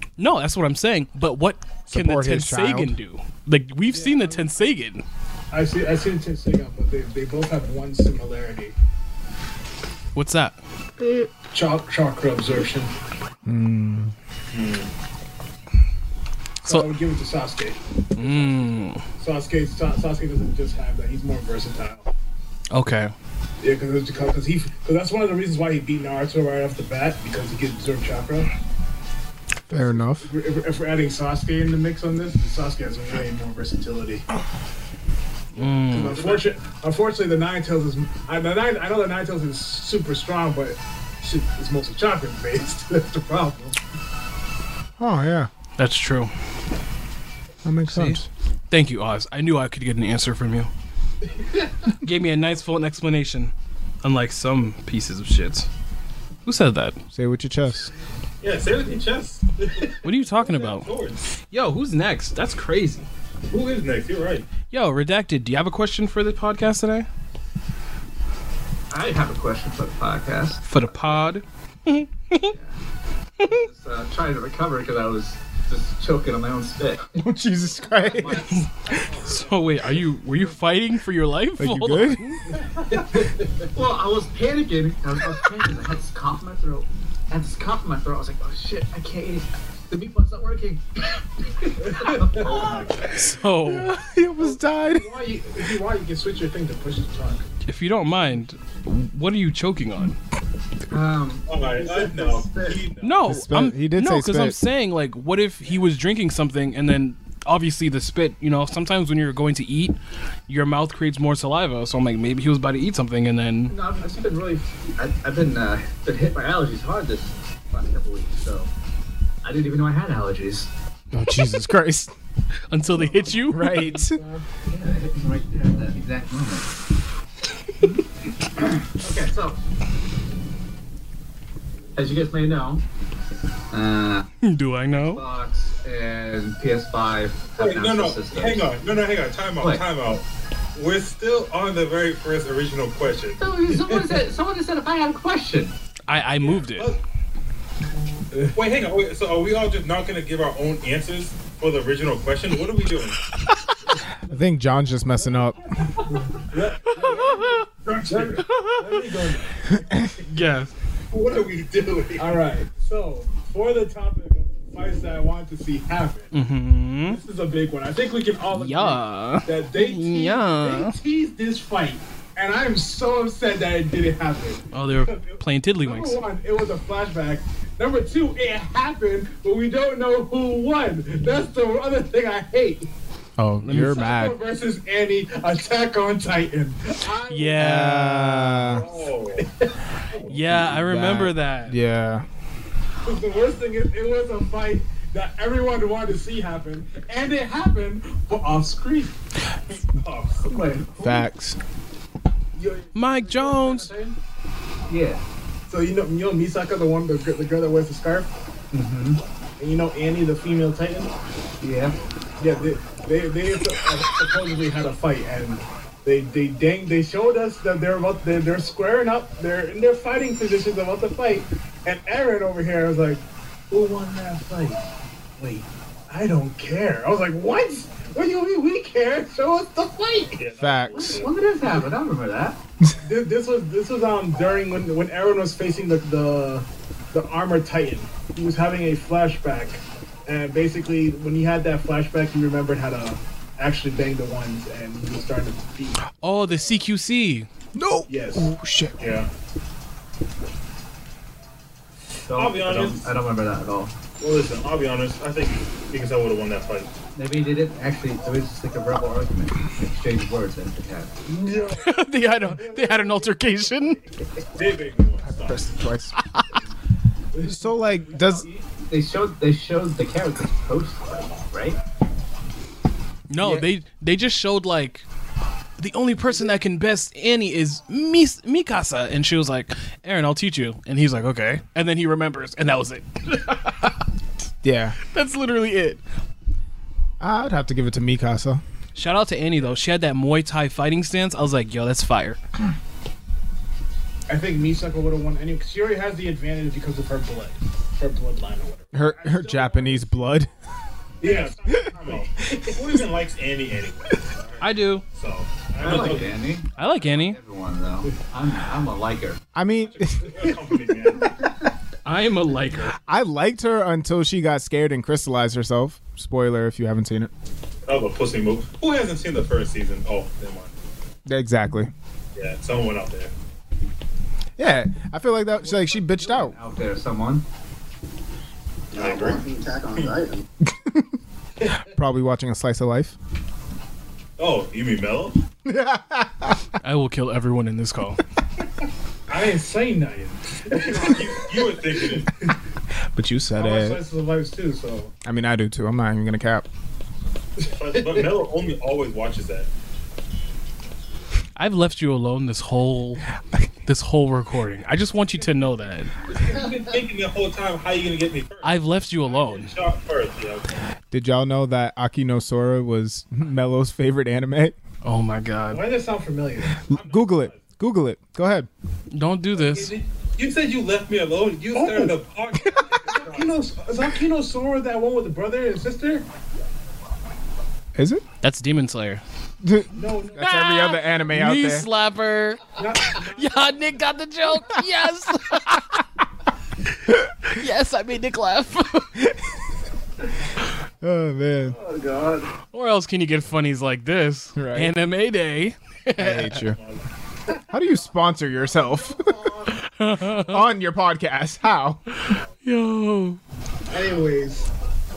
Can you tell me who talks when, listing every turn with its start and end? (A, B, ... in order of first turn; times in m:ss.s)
0:00.2-0:05.0 A
0:01.9-0:03.0 B
0:03.9-0:04.5 C
0:05.5-0:08.7 C
0:10.2-0:10.6 A
0:11.5-0:12.9 C
0:13.5-0:14.1 B
0:14.5-0:14.9 D
0:16.6-0:16.9 A
0:16.6-0:22.1 C
0:18.2-0:19.0 A
0:22.7-0:23.1 A
0:23.6-0:28.5 C
0:29.7-0:30.3 B
0:29.7-0:34.2 C
0:35.6-0:36.3 A
0:35.6-0:43.8 C
0:36.2-0:36.4 D
0:45.0-0:45.5 B
0:45.8-0:46.3 A
0:47.6-0:48.3 B
0:47.9-0:50.7 A
0:51.3-0:51.7 C
0:52.0-0:53.5 A
0:54.0-0:55.7 A
0:56.4-0:57.0 A
0:57.1-0:57.9 B
0:58.4-1:01.4 D
1:00.0-1:00.9 A
1:01.5-1:03.1 A
1:03.5-1:04.5 D
1:04.7-1:07.1 A
1:08.9-1:10.7 E
1:10.6-1:12.5 A
1:12.5-1:12.8 E
1:13.4-1:17.2 E
1:17.2-1:18.5 B
1:18.0-1:19.4 E
1:19.2-1:22.4 A
1:21.6-1:22.4 B
1:22.9-1:23.2 C
1:22.9-1:32.9 E
1:31.8-1:32.6 C
1:32.4-1:33.0 D
1:33.0-1:33.9 A
1:33.6-1:35.1 B
1:34.4-1:37.5 C
1:37.6-1:40.2 A
1:40.9-1:41.5 E
1:41.5-1:43.3 D
1:41.7-1:42.8 F
1:43.0-1:50.0 A
1:43.2-1:44.6 B
1:50.5-1:53.8 A
1:53.7-1:58.7 E
1:59.4-2:00.7 E
2:01.1-2:02.1 B
2:02.7-2:03.9 A
2:03.5-2:04.2 B
2:04.0-2:06.7 E
2:08.6-2:09.6 E
2:12.0-2:12.8 E
2:13.7-2:14.3 E
2:14.4-2:15.2 A
2:15.0-2:18.7 E
2:17.6-2:20.2 D
2:19.6-2:19.8 E
2:20.8-2:24.0 D
2:23.4-2:25.8 E
2:26.1-2:26.9 A
2:26.4-2:27.0 D
2:28.5-2:33.2 D
2:34.3-2:35.6 B
2:36.0-2:39.8 C
2:37.0-2:37.6 A
2:37.8-2:38.5 D
2:38.4-2:39.1 A
2:40.3-2:40.7 A
2:41.1-2:42.4 D
2:42.2-2:46.3 C
2:46.3-2:47.2 A
2:47.1-3:02.9 C
2:48.5-2:51.0 A
2:54.7-2:56.2 A
3:03.4-3:04.4 B
3:03.6-3:04.1 A
3:03.7-3:07.9 C
3:07.3-3:08.6 A
3:07.6-3:08.8 B
3:08.7-3:09.5 D
3:08.7-3:09.8 C
3:10.3-3:11.8 A
3:10.3-3:12.3 B
3:13.0-3:19.2 C
3:19.7-3:20.6 D
3:20.5-3:21.2 C
3:21.0-3:21.6 B
3:22.6-3:24.2 C
3:23.0-3:23.9 A
3:24.9-3:25.2 E
3:25.7-3:28.3 C
3:28.7-3:29.2 E
3:29.6-3:31.1 C
3:31.6-3:32.0 E
3:32.4-3:44.8 C
3:45.4-3:50.4 C
3:50.3-3:51.4 D
3:50.6-3:51.2 B
3:50.9-3:52.6 E
3:53.0-4:06.0 C
4:06.2-4:07.5 A
4:07.7-4:09.0 B
4:08.1-4:08.5 C
4:09.0-4:09.3 D
4:12.3-4:13.9 E
4:12.3-4:13.1 D
4:14.2-4:16.9 D
4:17.2-4:21.2 E
4:21.3-4:23.8 C
4:21.8-4:24.0 A
4:24.6-4:25.6 D
4:25.3-4:26.2 B
4:26.3-4:26.5 A
4:27.3-4:27.7 C
4:27.4-4:28.5 B
4:28.2-4:31.8 E
4:33.3-4:35.0 A
4:33.4-4:33.7 B
4:35.8-4:44.0 A
4:44.6-4:45.0 B
4:45.1-4:46.0 A
4:47.2-4:48.6 B
4:49.0-4:52.4 A
4:54.3-5:00.4 C
4:58.9-5:00.5 B
5:01.2-5:02.8 C
5:01.2-5:06.4 D
5:04.6-5:05.0 A
5:05.8-5:09.4 E
5:06.8-5:07.4 A
5:09.6-5:10.3 B
5:10.2-5:11.4 D
5:12.0-5:13.0 A
5:13.0-5:17.3 B
5:17.9-5:20.8 D
5:21.3-5:21.9 B
5:22.4-5:23.3 D
5:24.6-5:26.6 B
5:25.5-5:27.4 E
5:28.9-5:30.5 F
5:28.9-5:30.2 D
5:30.8-5:31.1 B
5:31.8-5:33.2 B
5:34.4-5:35.4 D
5:35.6-5:36.6 B
5:36.8-5:38.2 A
5:39.3-5:42.5 C
5:40.8-5:42.3 D
5:43.1-5:44.0 B
5:43.6-5:45.1 C
5:45.2-5:46.7 B
5:47.6-5:48.4 C
5:47.6-5:49.7 D
5:51.6-5:53.3 A
5:53.9-5:56.1 A
5:56.3-6:00.8 D
5:56.3-5:56.9 F
5:58.6-5:59.7 A
6:01.1-6:04.8 B
6:05.0-6:05.9 A
6:05.7-6:06.8 C
6:06.8-6:08.7 B
6:06.9-6:07.6 D
6:09.1-6:09.9 A
6:09.6-6:13.6 D
6:11.8-6:12.1 C
6:13.1-6:16.3 C
6:18.0-6:18.2 B
6:18.4-6:19.2 A
6:19.6-6:21.9 B
6:19.9-6:20.4 C
6:20.4-6:26.0 A
6:22.8-6:24.1 C
6:27.5-6:29.2 A
6:29.2-6:29.5 B
6:31.0-6:31.8 B
6:31.6-6:32.5 F
6:32.7-6:36.6 A
6:34.6-6:34.9 B
6:36.2-6:36.8 B
6:36.7-6:37.0 D
6:37.7-6:39.5 B
6:38.6-6:39.8 F
6:39.8-6:40.6 A
6:40.4-6:42.0 B
6:42.2-6:43.4 A
6:43.9-6:44.7 C